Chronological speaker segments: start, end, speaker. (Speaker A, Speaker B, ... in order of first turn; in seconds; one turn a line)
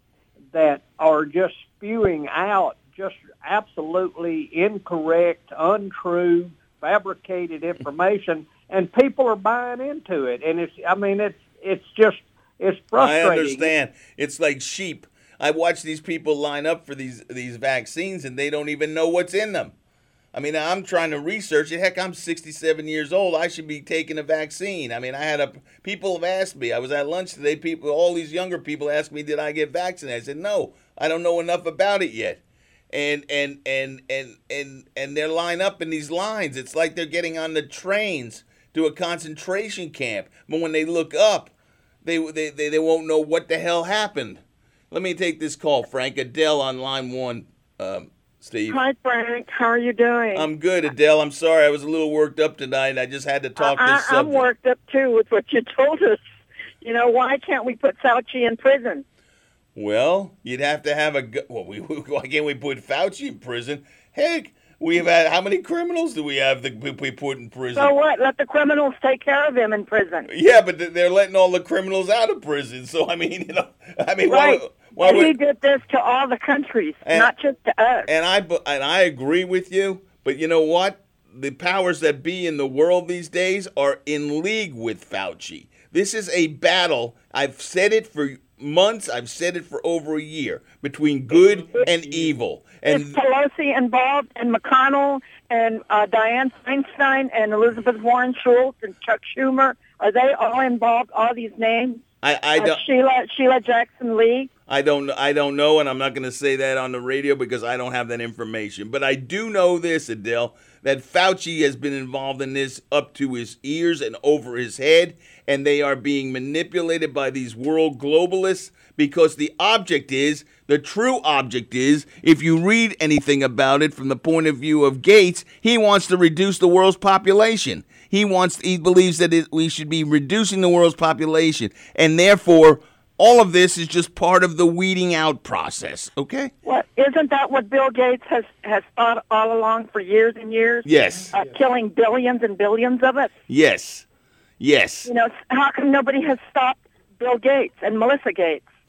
Speaker A: 0.5-13.7
Speaker B: 12.9-19.7
Speaker B: 20.3-41.5
Speaker B: 42.0-48.8
Speaker C: 48.7-50.5
Speaker B: 50.3-54.5
Speaker C: 53.6-56.2
Speaker C: 56.8-59.0
Speaker B: 59.7-67.9
Speaker C: 67.7-70.3
Speaker B: 70.3-75.3
Speaker C: 74.3-78.1
Speaker B: 77.0-77.3
Speaker B: 78.0-93.2
Speaker C: 92.8-102.0
Speaker B: 102.2-102.8
Speaker C: 102.6-104.5
Speaker B: 104.7-136.5
Speaker C: 136.6-143.3
Speaker B: 140.8-141.4
Speaker B: 143.5-144.1
Speaker B: 144.6-145.1
Speaker C: 145.0-148.6